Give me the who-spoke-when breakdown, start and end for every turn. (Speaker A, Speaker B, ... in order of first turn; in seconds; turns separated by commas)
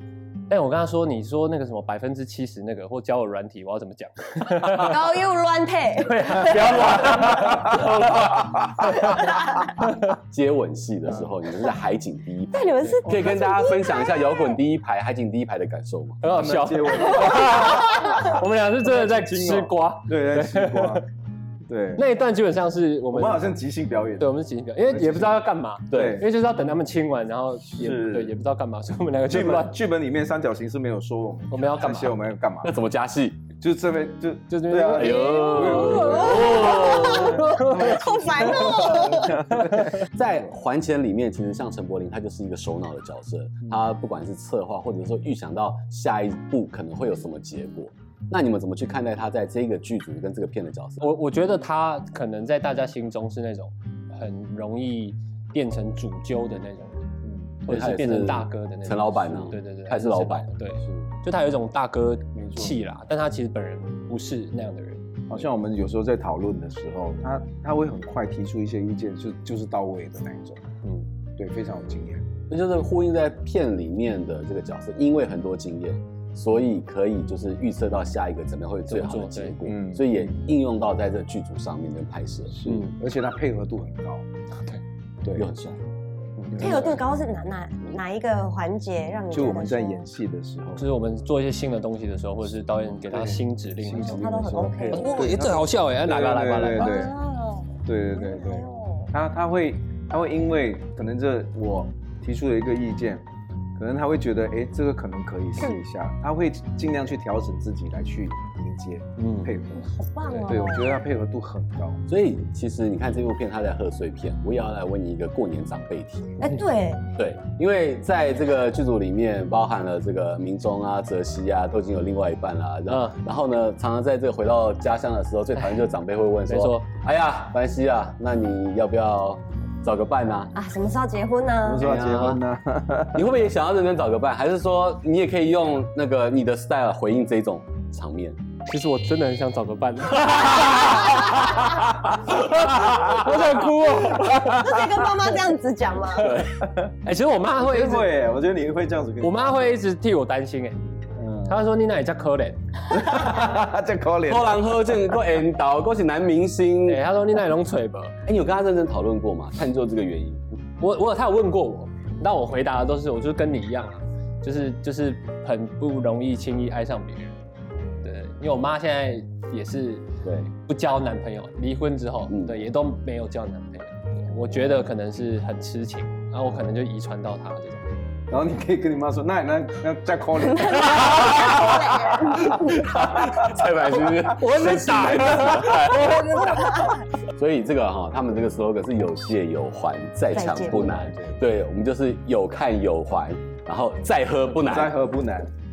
Speaker A: 0.5-5.0, Speaker B: 4.7-7.0, Speaker A: 6.0-8.1, Speaker C: 7.1-7.7, Speaker D: 7.6-8.5, Speaker C: 8.4-8.8, Speaker B: 9.0-9.6, Speaker D: 10.1-16.2, Speaker B: 12.5-14.5, Speaker A: 12.8-13.1, Speaker A: 16.2-21.0, Speaker C: 16.3-21.0, Speaker B: 17.5-18.2, Speaker C: 21.7-22.1, Speaker A: 21.9-23.5, Speaker C: 23.1-26.2, Speaker A: 24.2-29.7, Speaker D: 25.9-26.2, Speaker C: 27.7-28.3, Speaker C: 29.3-32.8, Speaker A: 31.5-32.3, Speaker D: 32.6-33.4, Speaker C: 33.6-40.0, Speaker A: 34.5-38.9, Speaker D: 35.0-37.5, Speaker B: 35.6-39.5, Speaker D: 39.8-51.1, Speaker A: 51.0-57.0, Speaker C: 57.2-57.6, Speaker A: 57.7-65.0, Speaker D: 57.7-60.5, Speaker C: 60.8-61.1, Speaker C: 62.3-62.8, Speaker C: 65.3-70.6, Speaker C: 71.4-72.2, Speaker D: 72.5-82.5, Speaker A: 78.9-79.5, Speaker C: 79.6-80.3, Speaker C: 82.5-84.2, Speaker A: 82.7-83.0, Speaker C: 85.2-85.5, Speaker D: 85.3-85.8, Speaker C: 86.5-87.0, Speaker A: 86.5-86.9, Speaker B: 86.6-90.0, Speaker C: 89.3-90.8, Speaker A: 90.8-97.0, Speaker C: 93.0-97.1, Speaker B: 93.9-95.3, Speaker B: 96.8-99.1, Speaker C: 97.8-103.2, Speaker C: 103.8-109.9, Speaker A: 109.2-109.5, Speaker B: 109.7-111.0, Speaker A: 110.3-110.5, Speaker C: 110.4-112.0, Speaker D: 112.1-116.5, Speaker B: 116.4-117.0, Speaker D: 117.2-130.5, Speaker A: 122.9-123.2, Speaker A: 125.6-125.9, Speaker A: 126.5-126.8, Speaker B: 130.5-131.9, Speaker C: 131.6-133.3, Speaker D: 131.8-132.4, Speaker D: 133.1-138.4, Speaker A: 138.7-144.7, Speaker D: 140.3-141.6, Speaker B: 144.4-146.4, Speaker D: 146.1-146.6, Speaker C: 146.6-146.9, Speaker A: 147.0-148.1, Speaker C: 147.6-149.8, Speaker A: 149.2-150.8, Speaker C: 151.2-151.6, Speaker A: 151.4-152.6, Speaker C: 152.9-155.0, Speaker D: 154.3-157.0, Speaker A: 156.8-158.2, Speaker D: 158.2-160.4, Speaker A: 160.8-167.4, Speaker A: 168.0-170.1, Speaker D: 170.2-170.5, Speaker A: 170.7-177.8, Speaker D: 172.3-172.5, Speaker C: 178.3-181.6, Speaker B: 180.5-182.8, Speaker D: 181.0-181.9, Speaker C: 182.3-183.3, Speaker D: 182.5-194.9, Speaker C: 184.1-185.7, Speaker A: 184.4-185.8, Speaker B: 186.5-186.9, Speaker B: 190.3-191.0, Speaker C: 190.7-191.4, Speaker C: 194.6-195.5